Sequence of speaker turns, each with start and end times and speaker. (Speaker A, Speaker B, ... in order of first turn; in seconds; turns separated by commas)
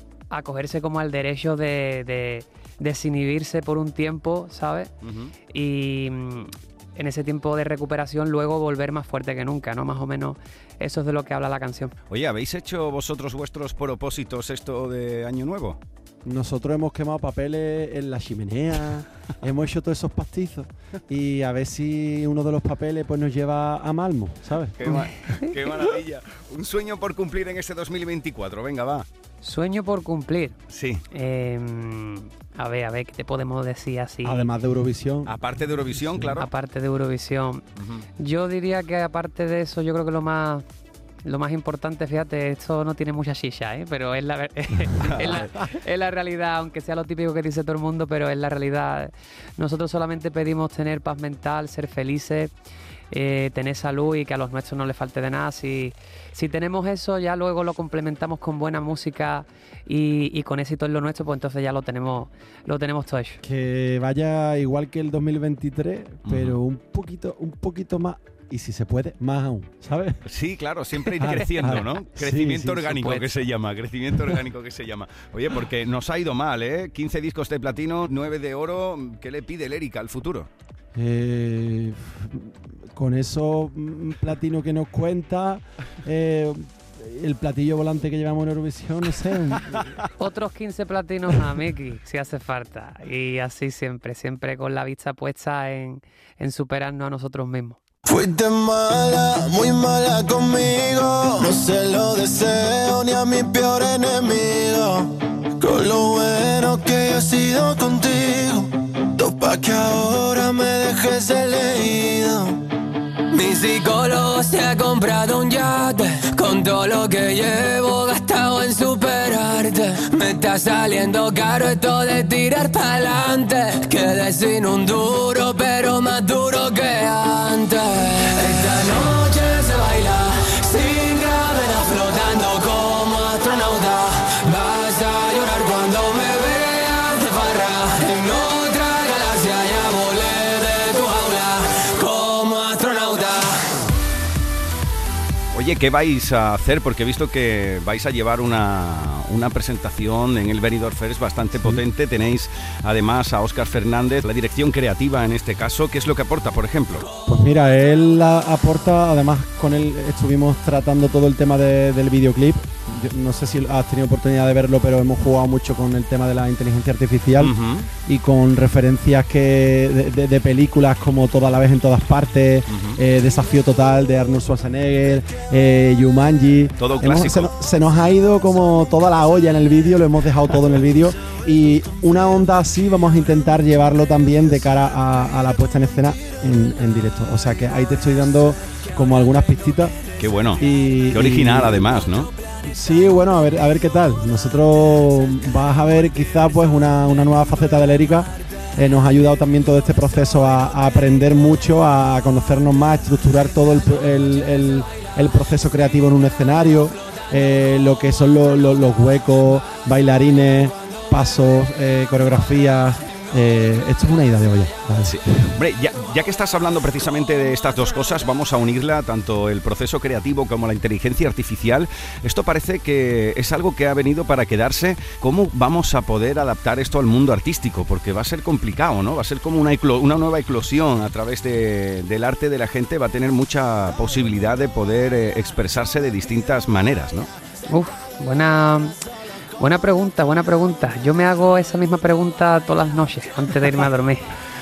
Speaker A: 0.3-4.9, Speaker B: 5.0-5.3, Speaker A: 5.5-11.9, Speaker B: 12.1-15.8, Speaker C: 16.2-24.8, Speaker B: 24.8-29.1, Speaker A: 24.9-25.1, Speaker A: 29.4-30.6, Speaker B: 30.7-31.0, Speaker A: 31.1-34.5, Speaker C: 34.2-35.4, Speaker B: 35.3-36.5, Speaker A: 36.3-37.6, Speaker B: 37.8-38.0, Speaker A: 38.2-40.6, Speaker A: 41.2-52.5, Speaker B: 45.0-45.5, Speaker A: 53.1-63.4, Speaker C: 63.4-70.1, Speaker B: 66.2-66.6, Speaker B: 70.3-80.5, Speaker C: 71.1-73.0, Speaker A: 73.0-73.3, Speaker C: 81.0-89.9, Speaker A: 90.2-97.8, Speaker D: 98.1-105.1, Speaker D: 105.6-108.6, Speaker D: 109.2-112.5, Speaker E: 113.3-143.7, Speaker B: 145.5-157.1, Speaker C: 151.5-151.8, Speaker C: 157.3-167.5, Speaker B: 167.4-167.9, Speaker C: 168.1-189.9, Speaker B: 172.7-173.0, Speaker B: 176.8-177.5, Speaker B: 190.2-192.3, Speaker C: 190.6-191.9, Speaker C: 192.7-215.5, Speaker B: 215.0-237.3, Speaker A: 237.7-239.0, Speaker A: 239.6-244.2